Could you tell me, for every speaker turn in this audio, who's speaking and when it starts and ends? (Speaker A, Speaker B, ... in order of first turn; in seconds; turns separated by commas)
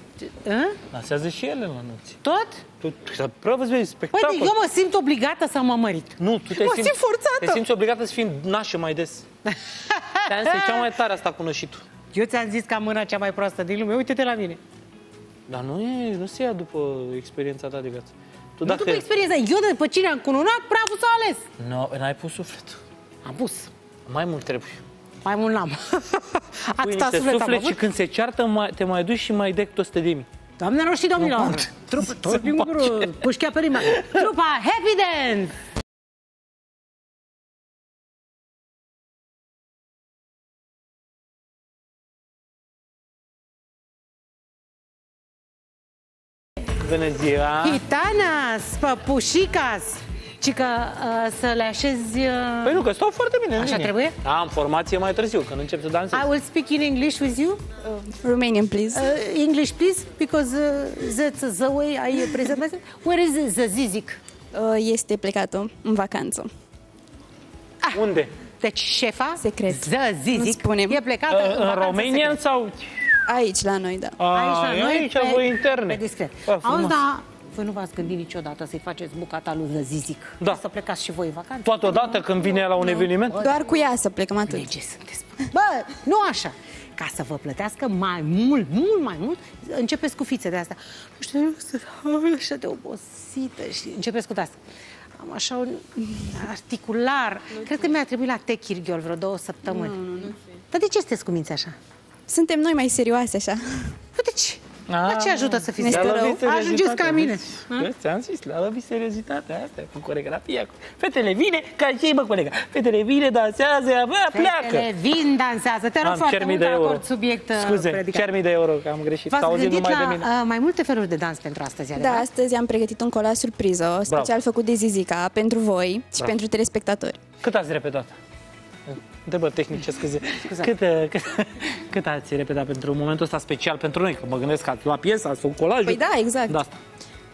Speaker A: 0.2-0.8, Speaker B: 0.9-2.2, Speaker A: 2.2-2.6, Speaker B: 2.8-4.5, Speaker A: 4.1-7.6, Speaker B: 6.2-9.2, Speaker A: 9.5-10.9, Speaker B: 10.3-11.8, Speaker A: 12.1-14.6, Speaker B: 15.5-19.0, Speaker A: 18.6-21.4, Speaker B: 21.6-22.8, Speaker A: 23.2-23.7, Speaker B: 24.1-24.8, Speaker A: 25.2-27.8, Speaker B: 26.8-30.3, Speaker A: 30.6-35.5, Speaker B: 31.2-33.2, Speaker B: 33.9-34.3, Speaker B: 46.8-47.8, Speaker A: 47.6-52.8, Speaker B: 52.6-56.3, Speaker A: 53.6-54.2, Speaker A: 56.1-57.6, Speaker C: 57.9-59.0, Speaker A: 58.9-64.2, Speaker C: 64.5-66.5, Speaker B: 67.9-68.3, Speaker A: 68.6-72.4, Speaker C: 69.4-71.0, Speaker B: 71.3-73.2, Speaker C: 73.3-74.2, Speaker B: 74.2-77.0, Speaker A: 74.3-82.2, Speaker B: 81.7-83.5, Speaker C: 82.7-84.7, Speaker A: 83.3-83.7, Speaker A: 84.5-94.6, Speaker A: 95.2-101.8, Speaker C: 99.7-100.3, Speaker C: 102.3-104.0, Speaker A: 104.2-107.9, Speaker B: 104.9-114.9, Speaker C: 105.8-106.4, Speaker A: 114.3-118.3, Speaker B: 116.0-117.0, Speaker B: 117.5-120.3, Speaker A: 119.3-122.3, Speaker C: 122.0-127.2, Speaker B: 124.1-124.3, Speaker B: 127.4-128.1, Speaker B: 128.9-136.8, Speaker A: 130.4-130.7, Speaker C: 135.8-136.6